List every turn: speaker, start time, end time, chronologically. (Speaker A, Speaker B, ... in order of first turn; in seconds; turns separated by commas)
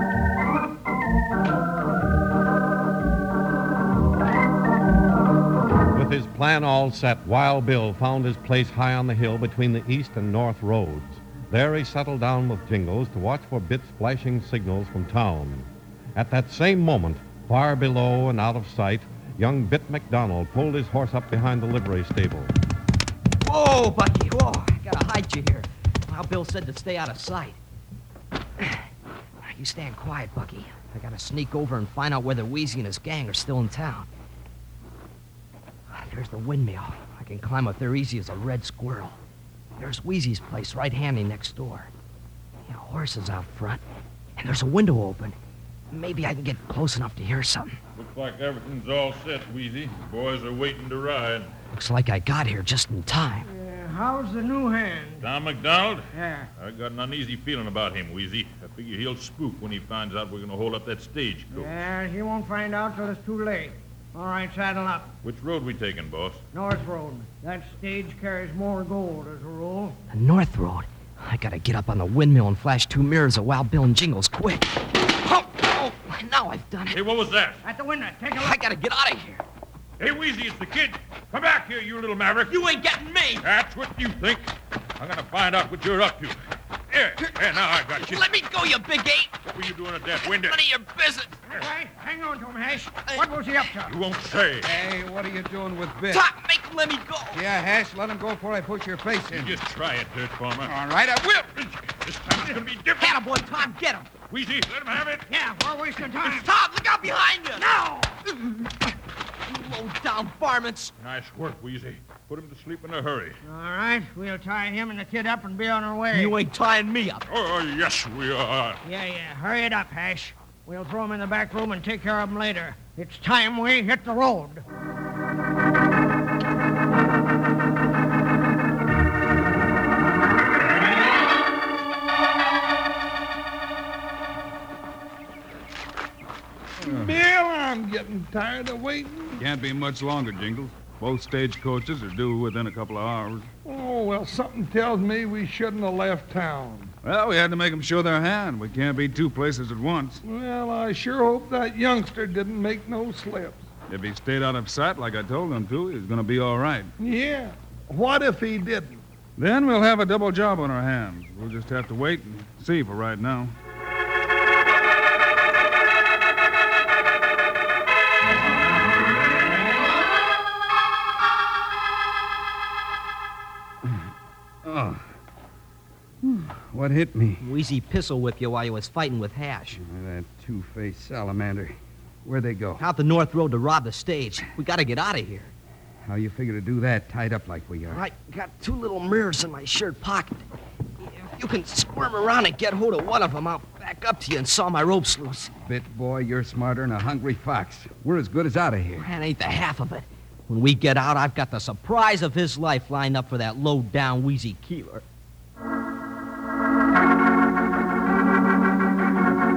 Speaker A: 5.9-22.5, Speaker B: 23.4-27.6, Speaker B: 29.4-34.1, Speaker B: 35.9-39.2, Speaker B: 39.8-41.9, Speaker B: 42.7-43.8, Speaker B: 44.4-45.4, Speaker B: 45.9-47.8, Speaker C: 48.0-51.5, Speaker B: 51.7-53.5, Speaker D: 53.4-55.3, Speaker C: 55.2-61.7, Speaker D: 56.1-56.5, Speaker D: 61.5-65.1, Speaker C: 65.2-66.4, Speaker D: 66.5-70.0, Speaker B: 70.1-77.0, Speaker C: 76.9-77.6, Speaker D: 77.6-78.6, Speaker B: 78.3-79.4, Speaker C: 80.0-82.6, Speaker B: 82.5-83.5, Speaker C: 83.4-86.4, Speaker C: 86.9-88.2, Speaker B: 87.2-89.3, Speaker C: 89.4-90.6, Speaker B: 90.2-91.7, Speaker D: 91.5-93.9, Speaker C: 93.8-94.7, Speaker E: 94.6-96.2, Speaker B: 96.1-97.4, Speaker E: 97.3-99.6, Speaker C: 99.3-100.7, Speaker E: 100.6-101.5, Speaker C: 101.5-103.2, Speaker B: 103.0-104.1, Speaker C: 104.3-105.2, Speaker D: 105.3-106.5, Speaker B: 106.2-107.7, Speaker D: 107.6-108.1, Speaker B: 108.3-108.9, Speaker B: 109.5-110.9, Speaker C: 111.0-113.4, Speaker D: 113.4-116.4, Speaker B: 116.1-117.2, Speaker C: 117.3-118.8, Speaker D: 118.8-124.6, Speaker F: 136.8-139.4, Speaker G: 136.8-137.1, Speaker G: 139.4-143.5, Speaker F: 143.6-146.9, Speaker G: 147.0-150.2, Speaker F: 150.2-153.7, Speaker G: 153.9-156.9, Speaker F: 157.0-159.0, Speaker G: 159.4-163.5, Speaker E: 174.6-175.1, Speaker E: 176.2-177.4, Speaker B: 177.4-179.8, Speaker E: 179.8-182.8, Speaker B: 182.8-185.5, Speaker E: 186.0-188.0, Speaker B: 187.9-190.4, Speaker B: 191.0-195.5, Speaker E: 195.6-199.1, Speaker B: 199.0-205.0